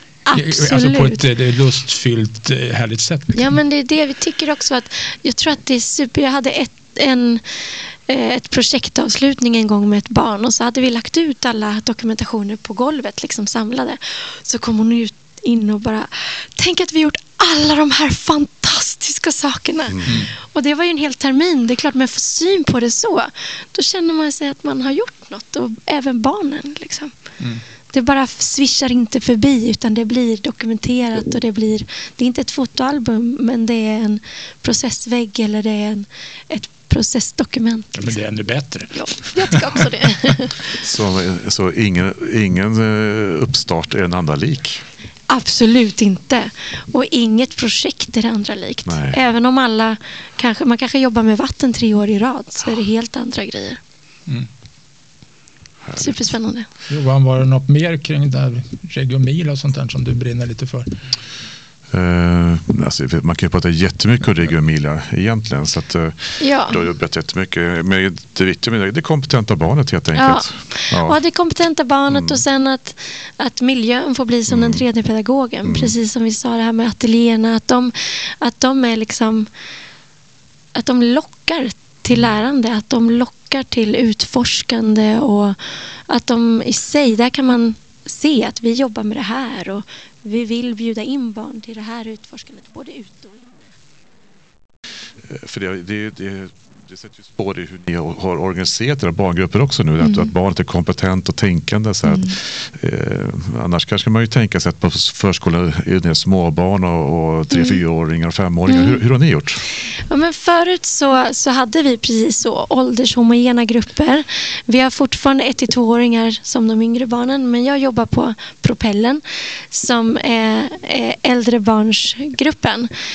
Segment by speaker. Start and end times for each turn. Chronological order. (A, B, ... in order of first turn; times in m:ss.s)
0:00.2-0:01.3 A
0:00.3-0:03.5 B
0:03.3-0:27.1 A
0:19.9-0:20.2 C
0:20.0-0:20.3 B
0:27.9-0:38.0 A
0:37.9-0:40.3 B
0:38.9-0:40.6 A
0:40.8-0:44.8 C
0:45.3-0:53.8 A
0:48.9-0:49.2 C
0:55.8-0:56.3 C
0:56.0-0:56.7 A
0:56.9-1:00.9 B
1:01.9-1:11.2 C
1:06.4-1:06.8 A
1:10.2-1:19.5 A
1:12.1-1:12.4 C
1:14.5-1:14.8 C
1:15.6-1:15.9 C
1:20.7-1:33.5 A
1:35.3-1:49.6 C
1:40.0-1:40.3 A
1:42.0-1:42.4 A
1:47.5-1:47.8 A
1:48.7-1:49.0 A
1:50.0-2:02.9 A